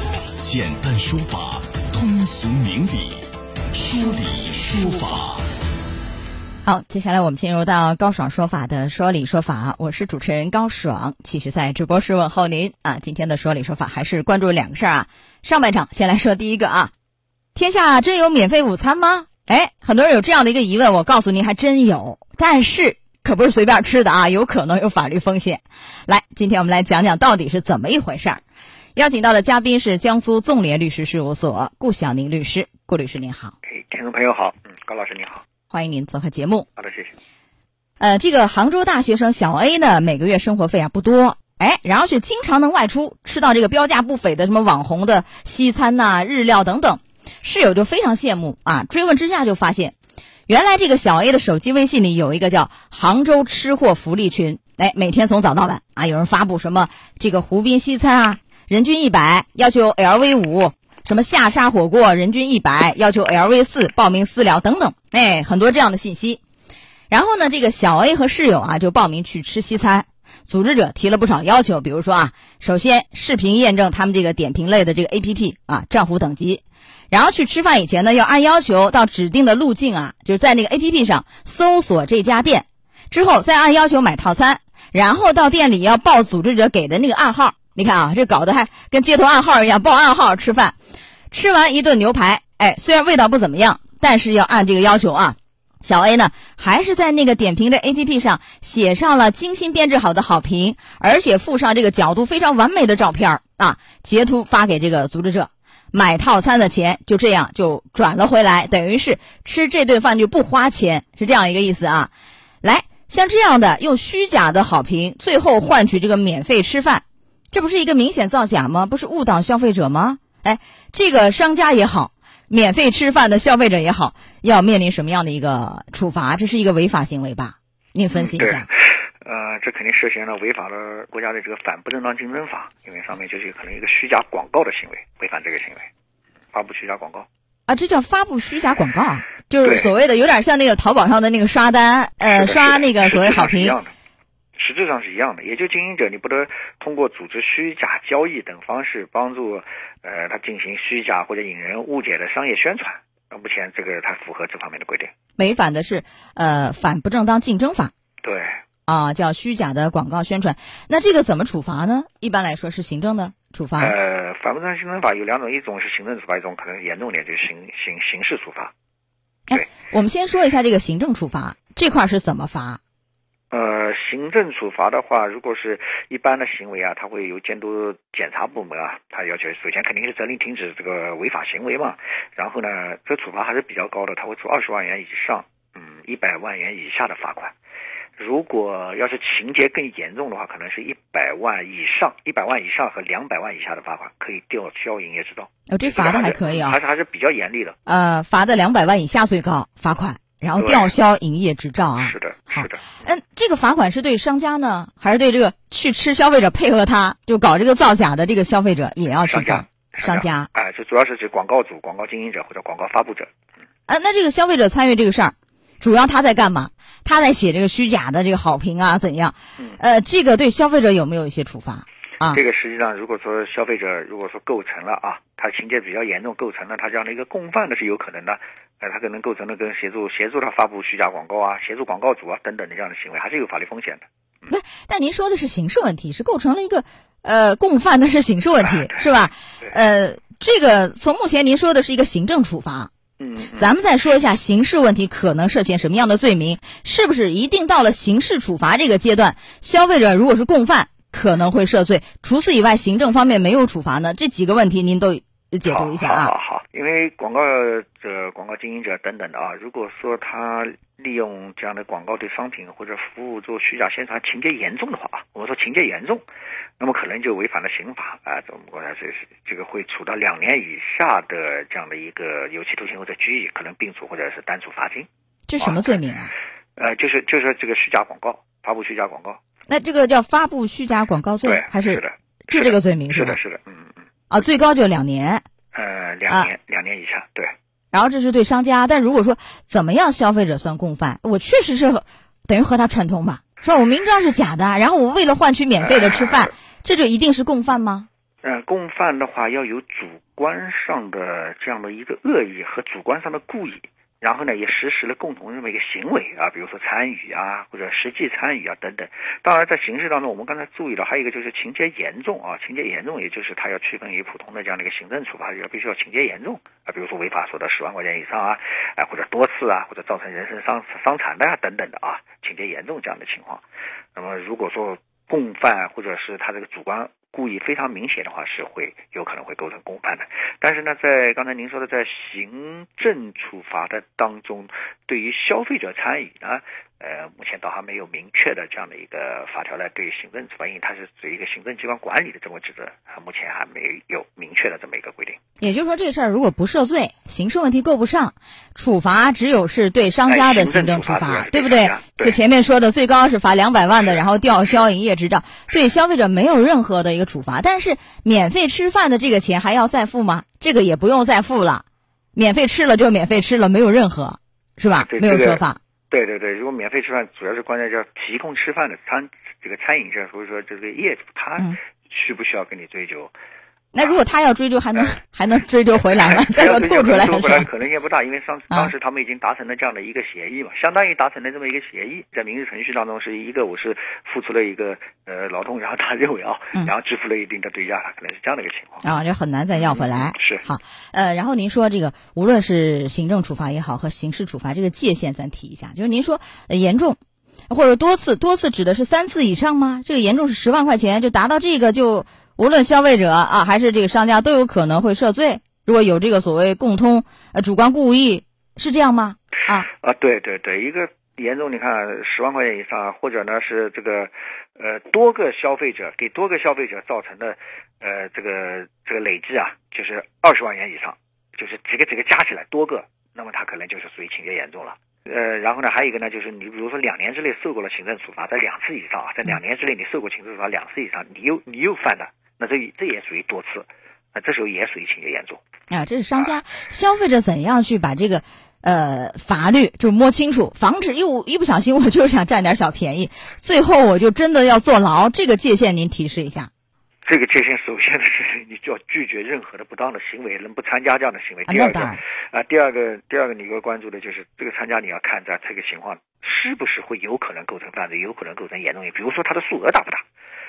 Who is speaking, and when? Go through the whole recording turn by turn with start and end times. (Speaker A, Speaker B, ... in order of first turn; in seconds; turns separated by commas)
Speaker A: 0.4-5.4, Speaker B: 6.6-16.9, Speaker B: 17.6-28.4, Speaker B: 28.9-33.6, Speaker C: 33.6-35.4, Speaker B: 35.7-36.7, Speaker C: 36.8-37.1, Speaker B: 38.0-50.0, Speaker B: 50.5-66.4, Speaker B: 67.1-90.8, Speaker B: 91.3-112.1, Speaker B: 112.6-128.7, Speaker C: 128.1-135.9, Speaker C: 136.5-137.3, Speaker B: 137.7-143.8, Speaker C: 139.6-139.9, Speaker C: 142.3-143.9, Speaker C: 144.6-155.1, Speaker B: 155.4-157.9, Speaker C: 158.2-158.6, Speaker B: 158.9-163.9, Speaker C: 163.8-168.7, Speaker B: 169.5-172.8, Speaker C: 173.5-187.5, Speaker C: 188.2-197.8, Speaker B: 195.7-196.8, Speaker B: 197.9-210.5, Speaker C: 200.6-200.9, Speaker C: 202.0-203.0, Speaker C: 209.2-213.3, Speaker B: 213.9-222.4, Speaker C: 222.3-234.5, Speaker B: 234.5-242.9, Speaker C: 238.6-239.7, Speaker C: 243.2-243.7, Speaker B: 243.6-256.3, Speaker C: 255.7-266.2, Speaker C: 266.8-275.1, Speaker B: 275.5-276.3, Speaker C: 275.6-276.0, Speaker C: 276.8-279.4, Speaker B: 279.7-283.4, Speaker C: 281.4-284.0, Speaker B: 284.3-285.4, Speaker C: 285.7-287.5, Speaker B: 287.9-298.1, Speaker C: 295.8-296.5, Speaker C: 298.4-323.6, Speaker C: 324.1-345.4, Speaker B: 345.6-365.8, Speaker C: 350.3-352.4, Speaker C: 365.0-373.3, Speaker B: 373.9-377.7, Speaker C: 376.1-389.0, Speaker B: 389.0-409.9, Speaker C: 389.7-390.6, Speaker C: 410.0-435.6, Speaker B: 435.9-446.7, Speaker C: 447.3-460.2, Speaker B: 451.7-452.2